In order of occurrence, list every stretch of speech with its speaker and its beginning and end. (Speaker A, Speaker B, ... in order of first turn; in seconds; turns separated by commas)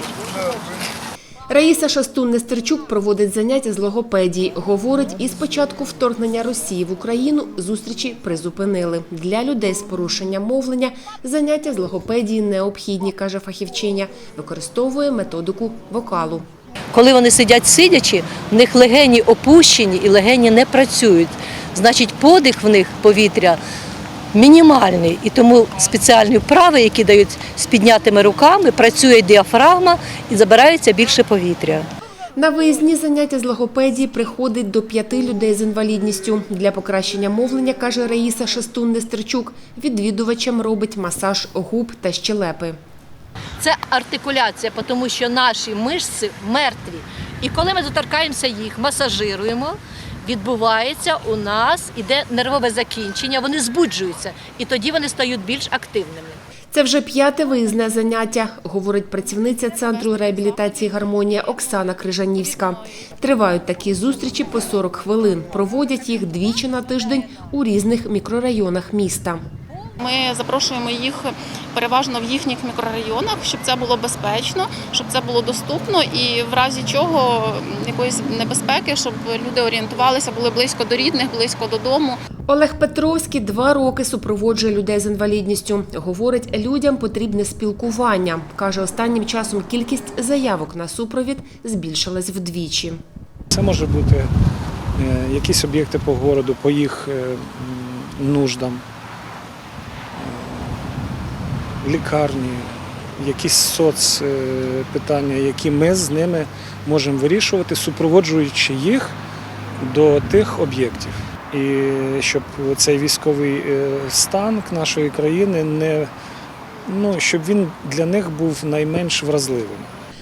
Speaker A: 1.5-16.5, Speaker B: 16.9-23.6, Speaker B: 24.3-31.9, Speaker A: 32.4-42.8, Speaker B: 43.6-56.4, Speaker A: 56.7-69.4, Speaker C: 70.0-82.2, Speaker A: 82.5-93.0, Speaker D: 93.5-94.3, Speaker D: 95.0-98.8, Speaker D: 100.2-101.0, Speaker D: 101.8-109.2, Speaker D: 109.8-116.1, Speaker D: 116.9-119.9